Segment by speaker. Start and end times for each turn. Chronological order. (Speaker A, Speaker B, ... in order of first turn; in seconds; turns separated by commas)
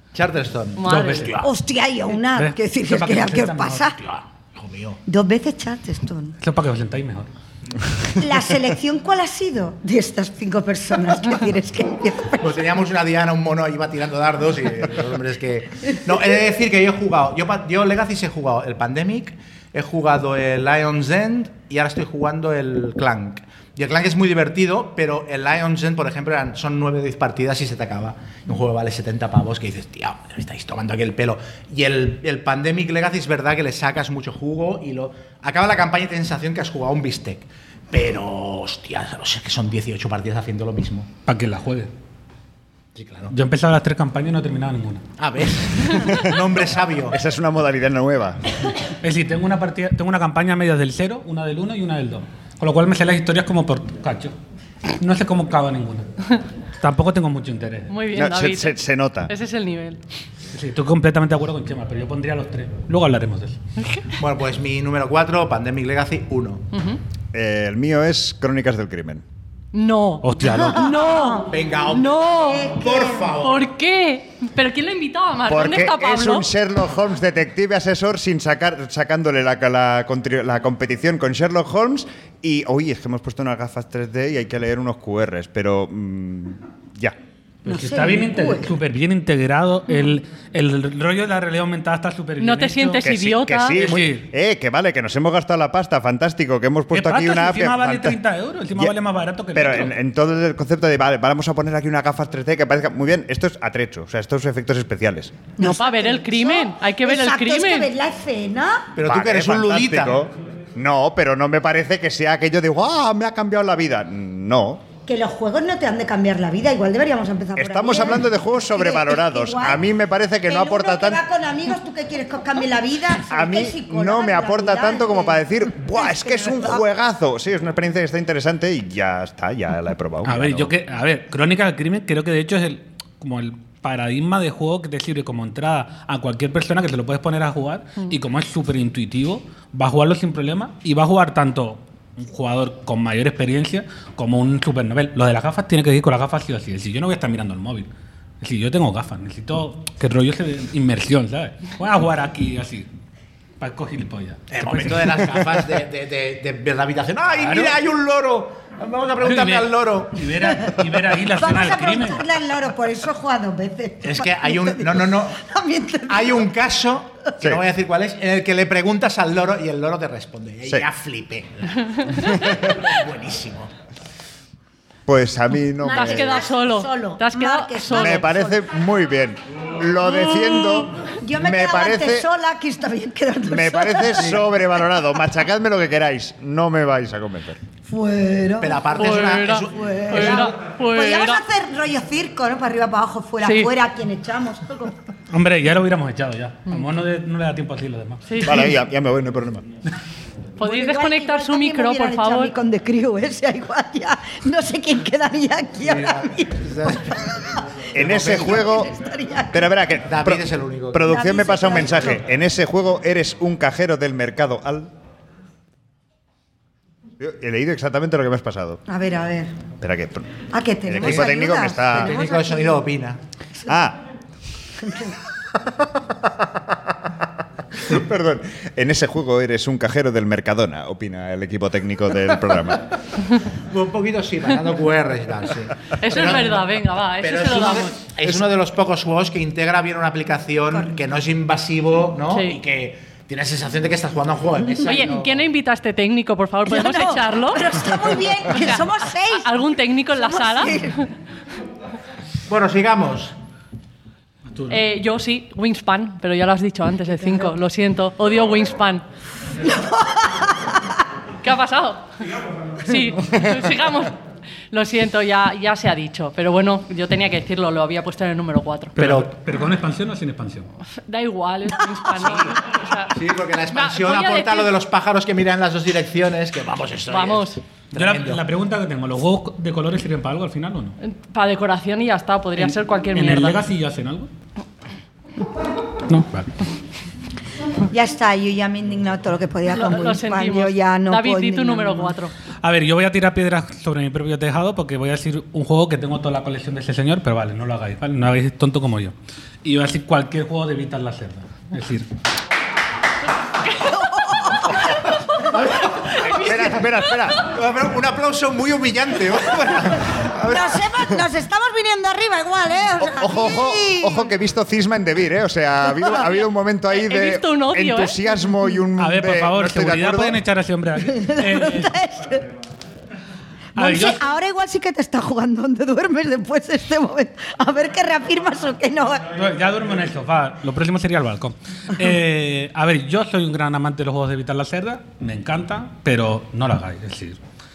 Speaker A: 0.1-1.5, Speaker B: 0.8-1.3, Speaker C: 0.9-1.4, Speaker D: 1.4-4.0, Speaker C: 2.3-3.9, Speaker A: 4.0-5.0, Speaker D: 5.1-6.4, Speaker C: 6.4-7.3, Speaker D: 8.2-12.6, Speaker A: 12.4-41.1, Speaker C: 41.3-41.9, Speaker A: 43.0-43.3, Speaker C: 43.3-45.1, Speaker A: 45.2-47.2, Speaker E: 47.1-48.4, Speaker C: 49.0-54.4, Speaker C: 54.9-56.1, Speaker C: 56.8-57.9, Speaker B: 57.9-60.0, Speaker E: 58.1-59.3, Speaker C: 60.5-63.6, Speaker B: 63.8-64.1, Speaker A: 64.2-66.7, Speaker B: 66.7-67.0, Speaker E: 67.3-69.2, Speaker B: 69.7-71.5, Speaker C: 70.2-70.9, Speaker D: 70.4-73.3, Speaker A: 71.5-73.7, Speaker B: 72.1-72.6, Speaker B: 73.4-76.5, Speaker E: 75.5-87.2, Speaker C: 87.7-93.0, Speaker D: 87.7-88.7, Speaker B: 92.4-93.8, Speaker E: 93.0-98.2, Speaker C: 93.7-94.3, Speaker C: 96.9-100.0, Speaker E: 99.5-105.4, Speaker D: 105.6-108.9, Speaker B: 105.6-107.9, Speaker A: 109.0-110.2, Speaker E: 109.0-114.9, Speaker D: 115.1-119.8, Speaker E: 117.6-121.2, Speaker D: 120.5-126.8, Speaker E: 123.3-130.7, Speaker C: 130.2-147.9, Speaker C: 148.4-152.9, Speaker C: 153.6-155.6, Speaker A: 154.5-160.3, Speaker C: 157.4-157.8, Speaker C: 159.2-162.2, Speaker D: 160.4-166.5, Speaker A: 164.0-165.4, Speaker A: 166.1-173.7, Speaker E: 175.1-176.5, Speaker D: 175.8-178.6, Speaker B: 175.9-178.3, Speaker E: 177.9-182.3, Speaker D: 180.2-184.4, Speaker E: 183.5-187.6, Speaker D: 187.9-188.8, Speaker A: 188.6-190.5, Speaker B: 188.9-191.4, Speaker D: 189.7-194.9, Speaker B: 193.4-193.7, Speaker C: 195.3-198.2, Speaker B: 198.3-198.7, Speaker E: 198.4-199.7, Speaker B: 200.6-202.5, Speaker D: 200.6-207.6, Speaker A: 205.8-207.1, Speaker E: 207.9-208.9, Speaker A: 208.0-208.6, Speaker D: 208.2-209.7, Speaker E: 209.5-214.9, Speaker A: 210.1-211.2, Speaker D: 211.1-212.2, Speaker E: 217.2-218.8, Speaker D: 218.9-219.5, Speaker E: 219.8-220.3, Speaker D: 220.5-222.8, Speaker E: 220.9-222.2, Speaker A: 221.0-223.2, Speaker E: 223.7-224.0, Speaker D: 224.8-225.2, Speaker E: 227.8-232.9, Speaker A: 233.7-236.6, Speaker B: 236.0-238.0, Speaker A: 237.2-245.4, Speaker B: 242.3-242.6, Speaker B: 244.8-247.9, Speaker D: 246.7-249.6, Speaker B: 248.5-251.1, Speaker D: 250.2-251.0, Speaker A: 252.5-253.3, Speaker C: 254.5-254.8, Speaker B: 254.7-259.0, Speaker D: 259.6-260.9, Speaker B: 261.4-262.1, Speaker B: 262.8-264.2, Speaker B: 264.7-269.0, Speaker C: 269.0-270.7, Speaker A: 269.0-269.3, Speaker B: 271.0-273.2, Speaker A: 273.1-278.4, Speaker B: 273.7-274.7, Speaker B: 277.1-277.6, Speaker C: 277.9-281.0, Speaker B: 281.0-283.6, Speaker C: 282.6-284.3, Speaker C: 286.1-286.5, Speaker D: 287.9-292.1, Speaker B: 289.7-292.3, Speaker C: 292.6-302.1, Speaker D: 303.8-304.8, Speaker A: 305.5-306.8, Speaker E: 306.3-307.5, Speaker A: 307.4-310.9, Speaker D: 310.4-314.3, Speaker E: 313.0-320.4, Speaker B: 316.9-318.2, Speaker C: 319.0-321.9, Speaker D: 321.0-322.5, Speaker C: 323.8-324.3, Speaker D: 323.8-329.3, Speaker C: 329.3-337.4